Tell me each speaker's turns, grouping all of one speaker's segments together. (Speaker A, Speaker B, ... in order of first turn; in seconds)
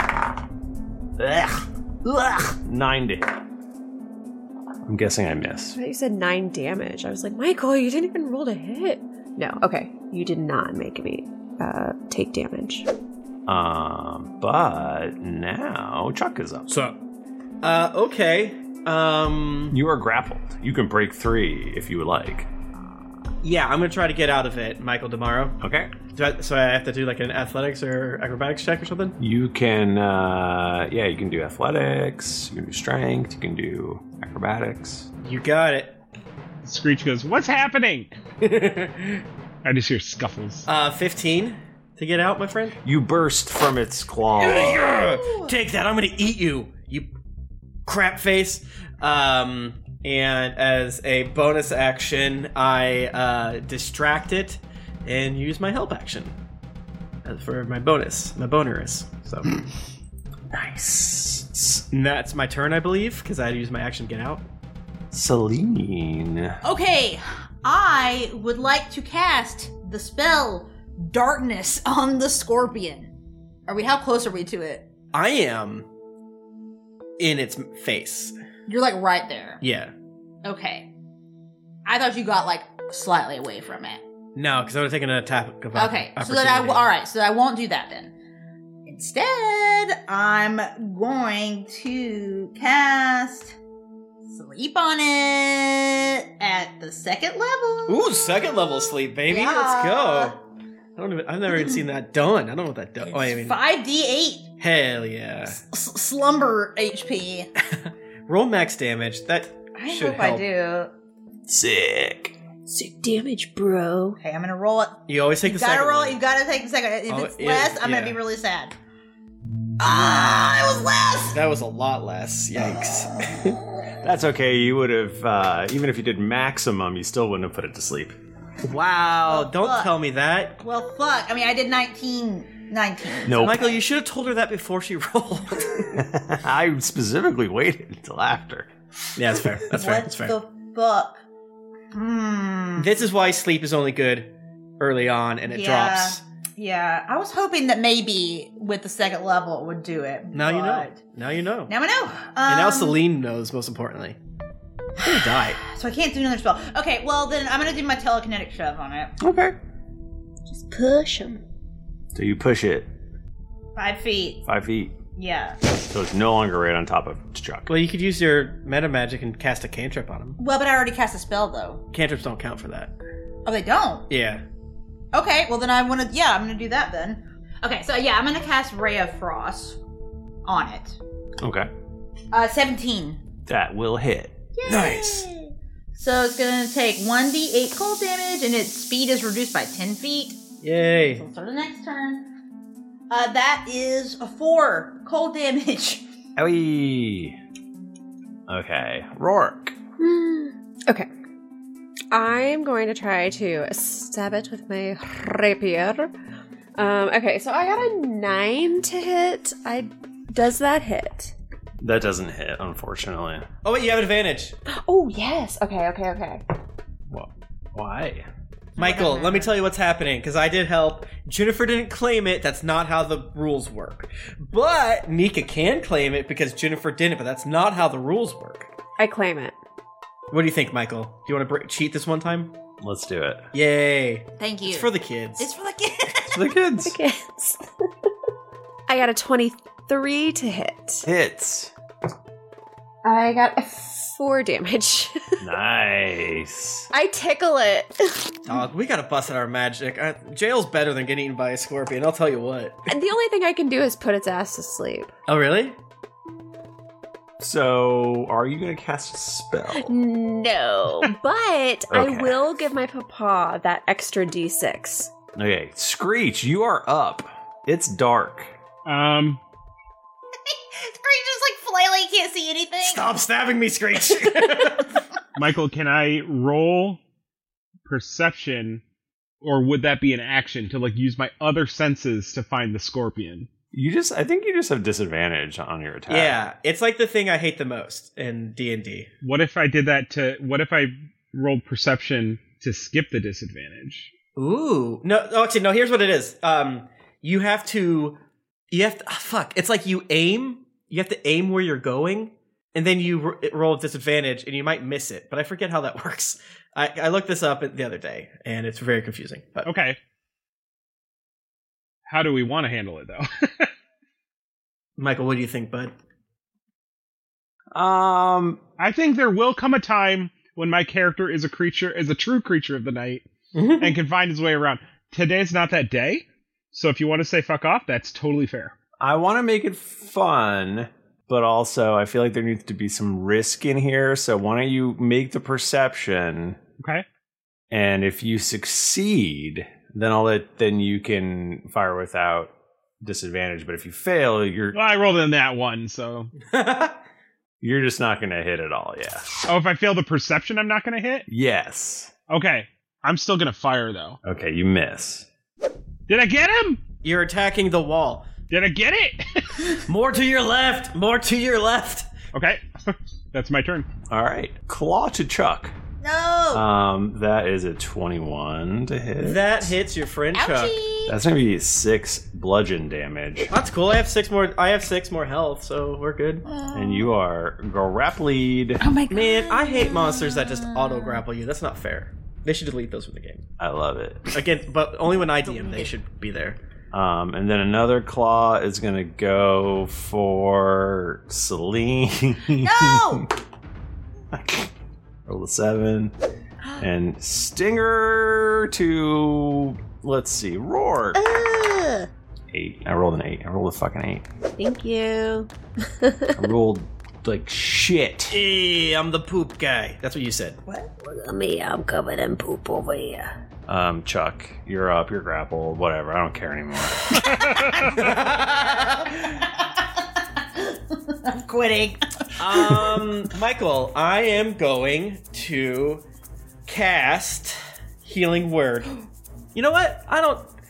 Speaker A: 1.2-3.4, 4.9-5.8, 13.5-16.7, 19.7-22.5, 25.6-26.0, 29.2-35.1, 42.8-44.9, 60.5-61.9, 65.1-66.6, 111.5-112.4, 124.0-128.2, 133.3-133.7, 135.9-138.7, 159.2-159.6, 162.1-162.9, 164.5-165.0, 165.8-167.7, 181.4-181.7, 183.5-184.4, 196.4-197.4, 198.5-199.7, 211.8-213.5, 217.1-218.3, 232.8-233.5, 236.3-236.9, 241.1-241.7, 245.4-246.9, 257.4-259.9, 261.9-262.4, 265.4-268.5, 283.7-286.4, 317.7-318.6, 329.0-336.6, 337.7-344.8, 347.6-349.3, 351.3-352.1, 354.2-355.3, 364.1-365.7, 366.5-369.7, 371.1-373.5, 376.7-378.8, 383.6-384.4, 386.9-393.2, 394.3-394.7, 395.3-396.1, 396.8-401.2, 402.5-404.2, 406.3-408.4, 413.7-417.2
Speaker B: 5.8-12.9, 112.7-114.2, 160.5-161.4, 200.0-201.1, 202.1-206.1, 206.8-211.3, 214.7-216.4, 229.0-229.6, 236.8-237.6, 238.9-241.1, 243.0-245.3, 246.9-248.4, 252.9-255.1, 259.7-265.1, 404.6-406.4, 411.0-413.3
Speaker C: 17.6-19.8, 23.4-29.2, 35.2-36.0, 38.4-39.2, 40.7-42.8, 44.4-47.1, 47.9-56.4, 57.2-59.5, 61.9-64.5, 75.1-75.9, 77.2-78.3, 79.6-79.9, 84.4-86.9, 97.9-100.4, 101.0-103.6, 104.6-105.6, 108.3-110.4, 115.1-116.2, 117.1-118.2, 121.3-123.5, 128.6-130.6, 133.3-135.9, 139.2-140.4, 142.8-146.2, 150.3-151.7, 152.5-154.2, 155.0-155.6, 167.7-170.4, 171.9-172.9, 174.1-174.4, 184.7-185.3, 190.6-191.2, 213.6-214.6, 218.8-228.7, 230.3-232.6, 233.5-235.5, 248.5-252.9, 255.3-255.8, 272.8-274.9, 286.1-289.1, 294.4-298.2, 298.7-309.7, 315.0-315.9, 323.5-324.0, 346.4-347.0, 357.0-358.3, 359.9-362.1, 369.2-370.8, 373.5-376.5, 379.1-383.4, 384.3-386.6, 408.3-410.6, 417.9-419.1, 422.4-426.1, 426.7-428.9, 429.6-430.5
Speaker D: 36.6-38.1, 39.6-40.7, 268.9-269.4, 275.4-277.0, 277.9-278.8, 279.4-283.5, 289.2-294.1, 309.6-310.0, 312.1-313.7, 318.8-328.8, 336.8-337.1, 344.7-346.3, 349.5-351.3, 352.3-354.2, 356.1-356.8, 358.5-359.8, 362.3-363.9
Speaker E: 44.8-45.5, 66.6-73.1, 73.7-74.9, 78.7-79.6, 80.4-80.9, 81.9-84.0, 85.7-88.1, 88.9-93.6, 94.3-98.1, 99.3-100.4, 103.0-104.5, 105.5-107.5, 109.8-110.9, 114.2-118.7, 119.8-121.4, 129.3-129.9, 130.6-133.8, 139.7-141.2, 141.9-143.0, 145.5-151.0, 151.7-153.0, 155.0-159.1, 163.8-164.4, 165.2-165.6, 170.4-171.8, 173.4-174.1, 175.1-179.8, 180.4-181.0, 182.3-183.2, 184.6-190.4, 191.1-192.3, 193.1-196.1, 218.8-219.6, 234.4-236.4, 270.5-273.1, 366.0-366.6, 370.3-371.2, 376.4-377.1, 378.8-381.2, 385.4-385.9, 392.6-393.3, 401.2-402.1, 418.4-418.9, 420.6-422.9